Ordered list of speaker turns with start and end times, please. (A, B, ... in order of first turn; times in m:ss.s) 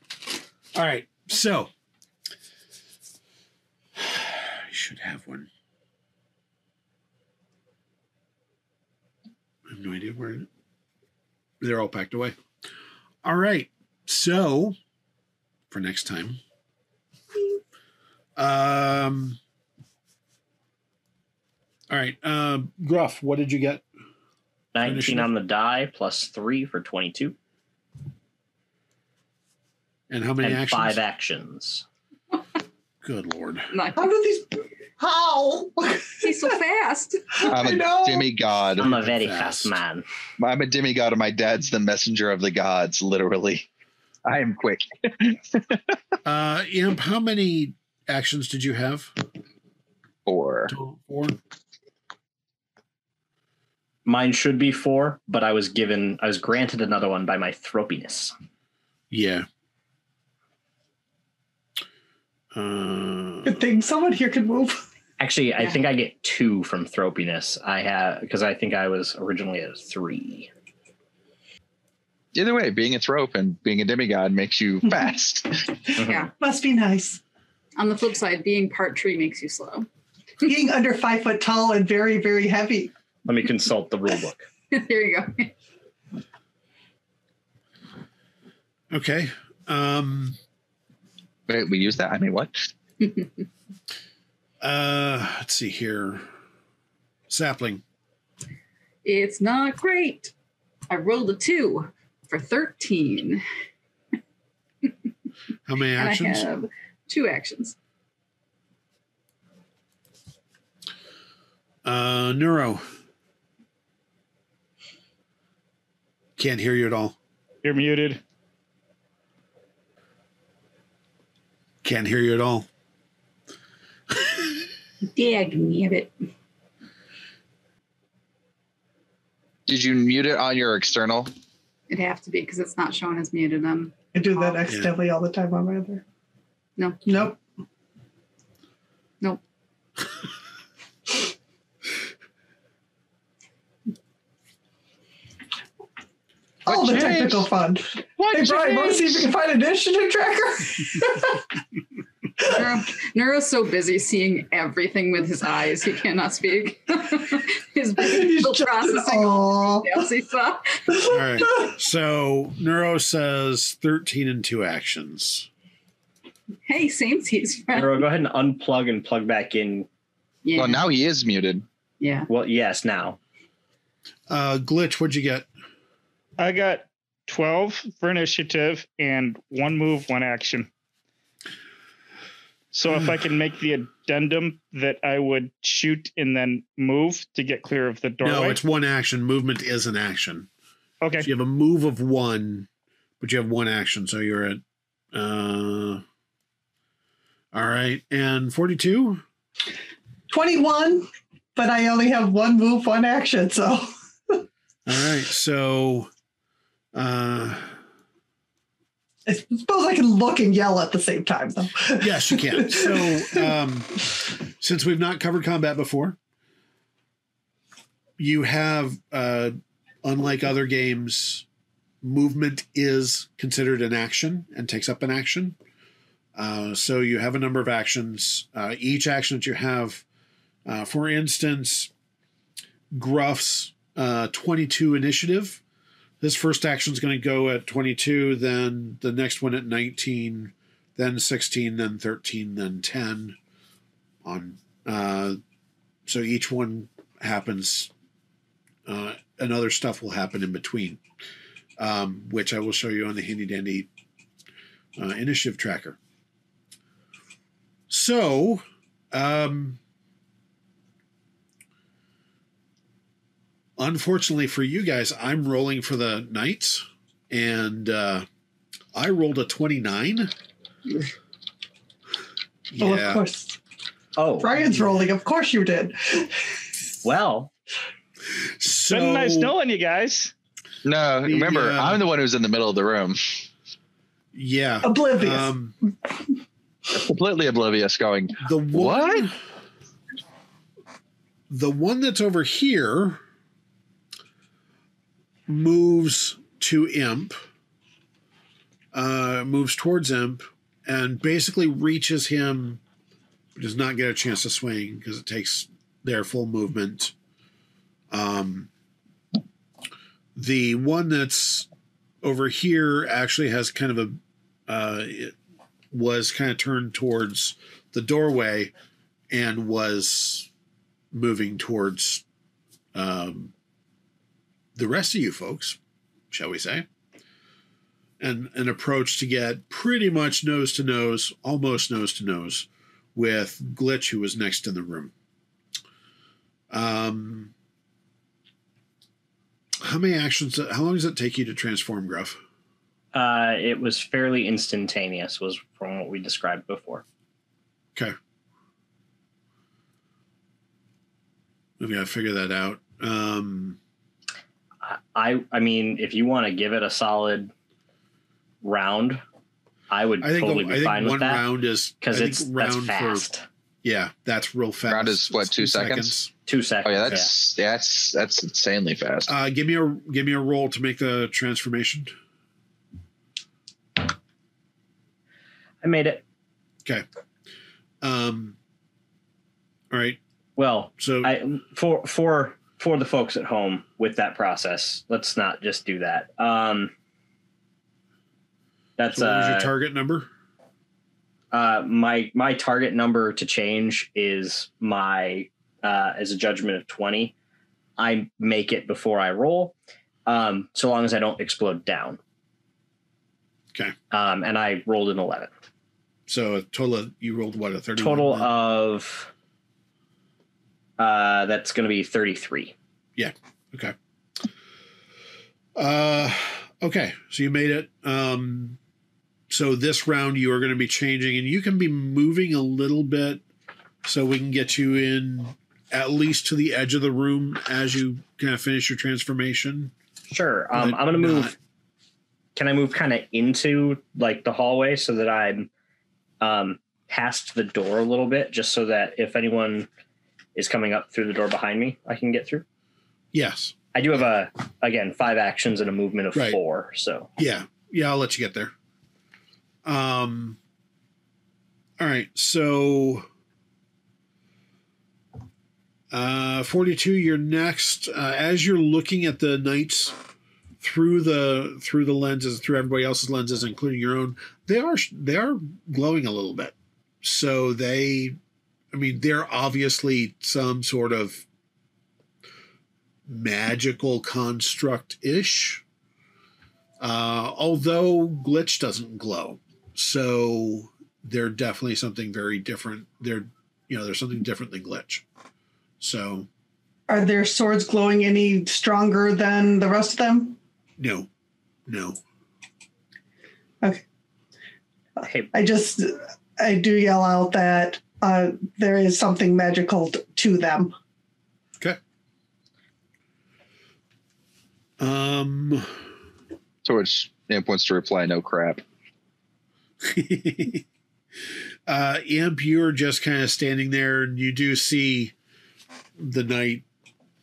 0:00.7-0:01.7 A
0:04.0-0:05.5 A
0:09.7-0:10.5 A
0:11.6-0:12.4 A
0:13.2-0:14.8 A
0:15.7-0:16.4 A
0:18.4-0:19.4 A
0:21.9-0:23.8 A
0:24.7-0:27.4 B
0:24.8-0:25.3 A
0:30.1-0:31.0 A
0:30.4-0:31.8 B
0:33.0-0:33.7 A
0:33.7-0:34.1 C
0:34.0-0:36.5 D
0:36.2-0:37.5 C
0:37.4-0:38.3 D
0:37.5-0:38.9 E
0:38.8-0:39.8 A
0:38.8-0:40.0 B
0:40.4-0:43.7 E
0:44.2-0:45.6 E
0:46.2-0:49.1 A
0:50.3-0:50.7 E
0:50.7-0:51.4 A
0:54.1-0:58.3 B
0:59.1-0:59.5 A
1:02.5-1:03.6 A
1:03.4-1:04.8 D
1:05.2-1:10.5 B
1:12.3-1:15.5 E
1:16.0-1:16.3 B
1:16.4-1:17.2 D
1:17.8-1:19.9 C
1:20.4-1:22.9 D
1:23.3-1:24.5 B
1:24.7-1:25.5 C
1:28.9-1:30.4 A
1:31.5-1:32.5 E
1:34.6-1:36.3 A
1:37.3-1:37.8 A
1:39.0-1:40.3 C
1:40.9-1:43.4 C
1:45.7-1:46.5 A
1:46.0-1:47.8 C
1:51.8-1:52.8 A
1:56.4-1:57.2 A
1:57.6-1:58.2 F
2:01.8-2:02.7 A
2:05.2-2:06.1 C
2:09.7-2:11.3 E
2:11.9-2:13.9 C
2:14.1-2:16.0 D
2:14.7-2:14.9 A
2:16.8-2:17.0 C
2:17.1-2:17.4 D
2:26.6-2:31.4 D
2:26.7-2:27.5 E
2:28.2-2:29.3 E
2:32.4-2:41.0 C
2:38.0-2:40.0 D
2:41.1-2:45.5 A
2:46.7-2:48.0 C
2:47.7-2:49.9 B
2:50.4-2:50.8 C
2:50.6-2:51.6 E
2:52.0-2:52.3 C
2:52.3-2:53.2 B
2:54.3-2:55.5 A
2:56.4-3:00.7 F
3:02.7-3:08.6 F
3:08.2-3:10.5 A
3:11.0-3:11.3 F
3:11.2-3:12.7 A
3:13.2-3:16.0 A
3:17.5-3:19.2 A
3:20.3-3:24.4 D
3:24.9-3:26.1 A
3:26.9-3:27.8 A
3:29.3-3:33.4 D
3:32.0-3:34.0 A
3:34.6-3:36.2 A
3:38.2-3:41.4 A
3:42.0-3:45.6 A
3:46.4-3:50.0 A
3:50.7-3:51.9 A
3:52.9-3:55.6 A
3:56.2-4:03.4 A
4:04.2-4:05.4 A
4:06.1-4:07.9 A
4:08.9-4:11.0 A
4:11.8-4:13.9 A
4:15.0-4:16.0 A
4:17.9-4:19.8 A
4:23.8-4:28.3 A
4:28.9-4:30.3 A
4:32.7-4:33.2 A
4:32.8-4:33.6 D
4:34.2-4:34.6 B
4:34.4-4:36.4 D
4:37.0-4:37.5 B
4:38.4-4:39.5 A
4:38.9-4:40.3 F
4:40.8-4:43.2 E
4:41.2-4:42.0 A
4:44.3-4:45.8 A
4:44.8-4:45.5 D
4:46.9-4:49.3 E
4:48.4-4:49.4 A
4:51.5-4:53.2 A
4:55.5-4:57.4 A
4:58.9-5:02.8 A
5:03.6-5:07.1 A
5:08.1-5:08.7 A
5:10.4-5:11.7 A
5:12.2-5:15.4 A
5:15.9-5:18.7 A
5:19.3-5:20.5 A
5:21.1-5:22.2 A
5:22.9-5:23.5 A
5:24.7-5:25.8 A
5:26.3-5:26.9 A
5:28.2-5:35.1 A
5:36.7-5:37.5 A
5:39.8-5:42.4 A
5:43.1-5:47.0 B
5:51.8-5:53.8 A
5:54.8-5:57.5 B
5:58.6-5:59.2 B
5:59.9-6:01.5 B
6:00.2-6:03.3 A
6:02.0-6:03.4 B
6:03.8-6:06.3 A
6:04.9-6:06.2 E
6:06.5-6:07.3 B
6:06.8-6:09.3 E
6:09.3-6:12.1 A
6:15.8-6:16.2 B
6:18.0-6:18.6 A
6:19.9-6:20.2 A
6:20.6-6:26.9 B
6:21.0-6:21.3 A
6:29.0-6:29.7 B
6:29.1-6:30.3 A
6:31.5-6:37.3 B
6:38.0-6:39.7 B
6:40.3-6:42.2 B
6:44.1-6:45.5 B
6:46.3-6:48.5 A
6:48.0-6:49.3 B
6:51.0-6:52.7 B
6:53.2-6:54.0 A
6:55.8-6:58.8 A
6:59.5-7:03.4 A
7:04.0-7:09.9 A
7:10.3-7:11.6 B
7:10.7-7:11.6 A
7:12.6-7:15.7 B
7:16.4-7:19.9 B
7:20.6-7:22.6 B
7:23.3-7:23.8 A
7:23.9-7:27.3 B
7:26.3-7:26.6 A
7:27.4-7:28.7 A
7:29.8-7:30.6 A
7:32.0-7:33.3 A
7:36.1-7:40.2 A
7:40.8-7:48.4 A
7:48.9-7:51.4 A
7:53.3-7:55.8 A
7:57.0-8:05.2 A
8:06.0-8:06.5 A
8:07.1-8:10.6 D
8:11.0-8:11.3 A
8:11.9-8:12.2 A
8:15.2-8:20.9 D
8:15.2-8:15.5 B
8:25.0-8:25.9 A
8:26.8-8:28.8 E
8:30.0-8:30.8 A
8:31.9-8:35.3 A
8:36.2-8:36.8 A